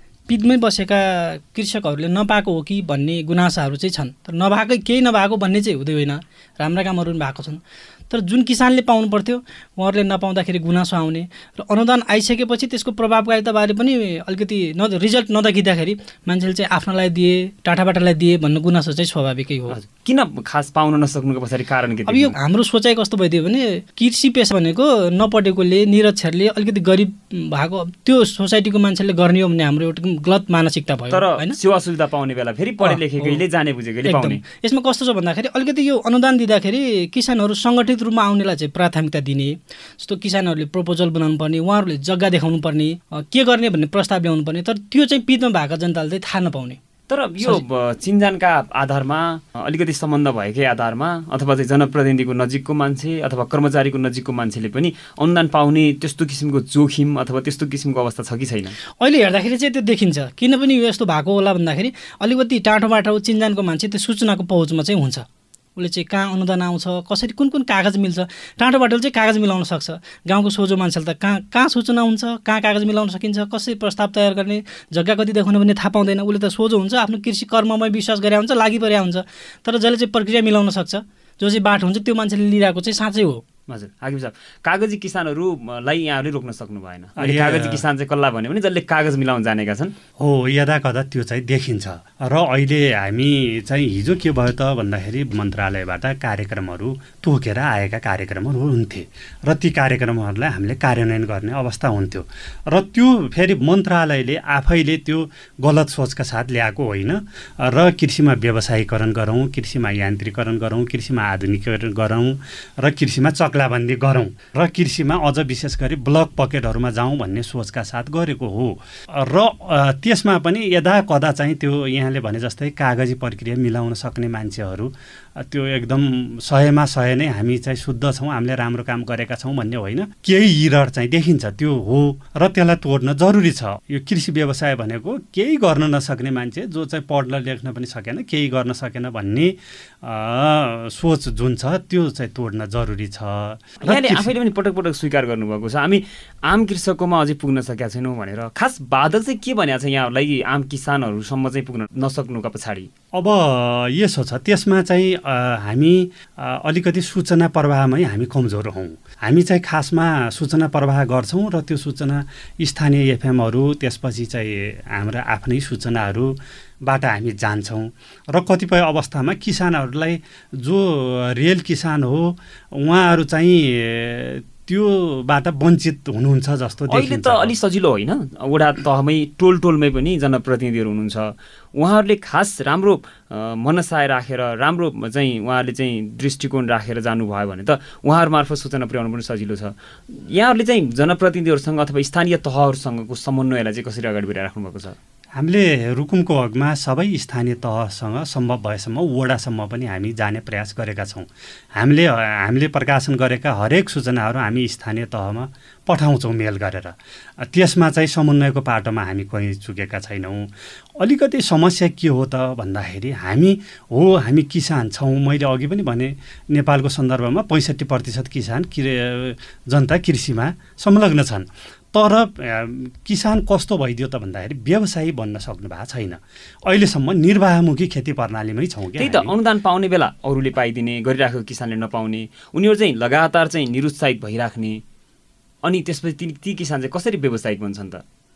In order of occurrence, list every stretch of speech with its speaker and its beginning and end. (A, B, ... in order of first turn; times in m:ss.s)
0:00.3-0:19.8 A
0:19.7-0:22.3 B
0:22.1-0:31.6 A
0:31.1-0:34.4 B
0:32.8-0:33.4 A
0:34.0-0:46.8 A
0:47.1-0:58.8 B
0:59.0-1:23.4 A
1:23.7-1:29.9 B
1:27.2-1:27.8 C
1:30.2-2:24.3 C
2:23.8-2:32.9 B
2:33.1-2:57.5 C
2:56.9-3:15.0 B
3:15.4-3:49.3 C
3:49.0-3:54.8 B
3:55.6-3:58.0 B